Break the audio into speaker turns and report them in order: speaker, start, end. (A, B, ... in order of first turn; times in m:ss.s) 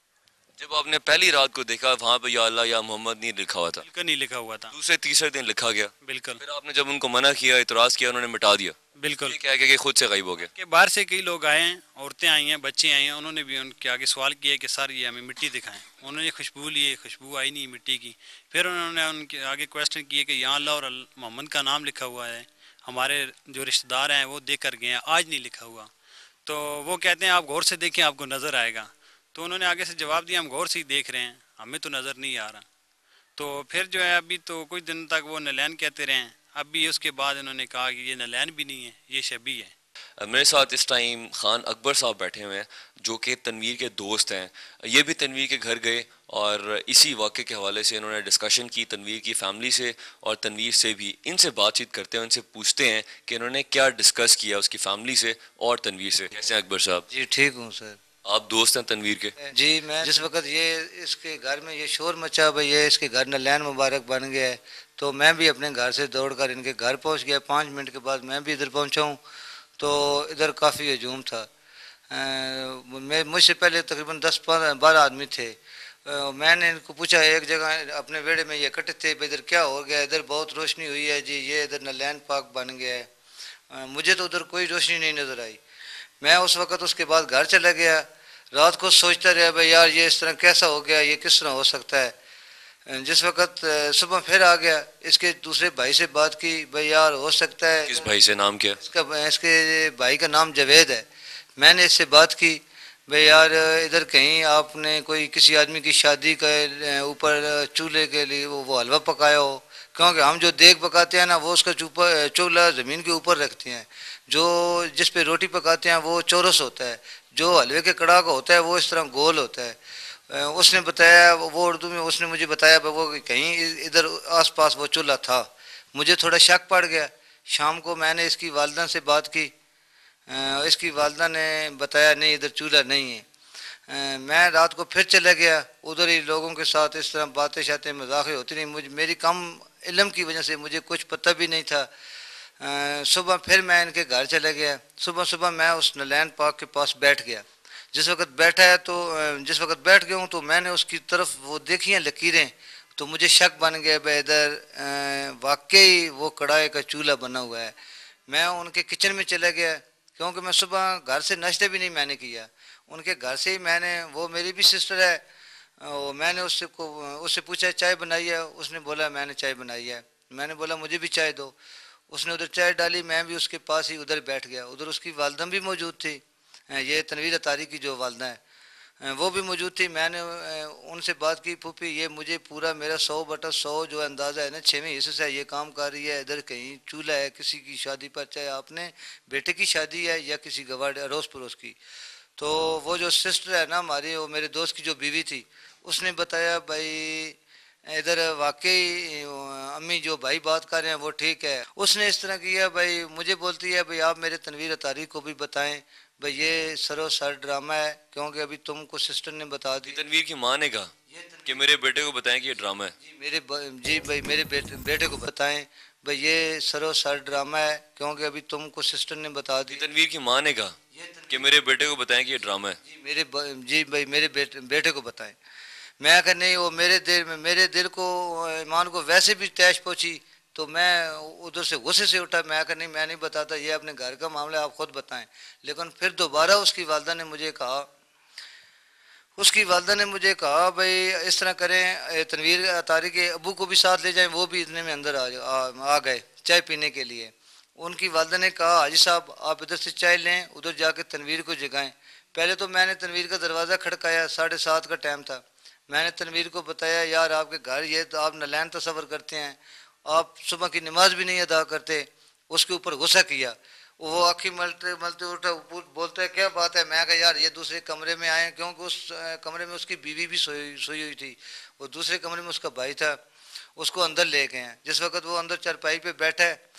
0:00.6-0:03.8 A
0:03.8-0:04.7 B
0:04.7-0:08.8 A
0:06.0-0:06.4 B
0:09.0-0:09.4 B
0:09.3-0:10.5 A
0:10.5-0:25.9 B
0:26.4-0:32.6 B
0:33.4-0:39.7 B
0:40.2-0:57.0 A
0:57.1-0:58.0 C
0:58.2-0:59.3 A
0:59.4-1:09.2 C
1:09.8-1:11.5 C
1:12.1-1:23.1 C
1:23.7-1:25.6 C
1:26.2-1:32.1 C
1:32.9-1:38.1 C
1:37.9-1:38.8 A
1:38.8-1:41.0 C
1:41.6-2:09.5 C
2:10.3-2:13.2 C
2:13.9-2:21.9 C
2:22.6-2:37.7 C
2:38.3-2:45.2 C
2:45.8-2:51.6 C
2:52.1-2:58.4 C
2:59.0-3:11.8 C
3:12.4-3:30.0 C
3:29.8-3:30.9 A
3:31.1-3:31.6 C
3:31.4-3:32.9 A
3:33.0-3:39.8 C
3:39.7-3:40.8 A
3:40.9-3:41.5 C
3:41.3-3:42.8 A
3:42.8-3:45.4 C
3:46.0-3:57.9 C
3:59.4-4:33.2 C
4:33.8-4:36.6 C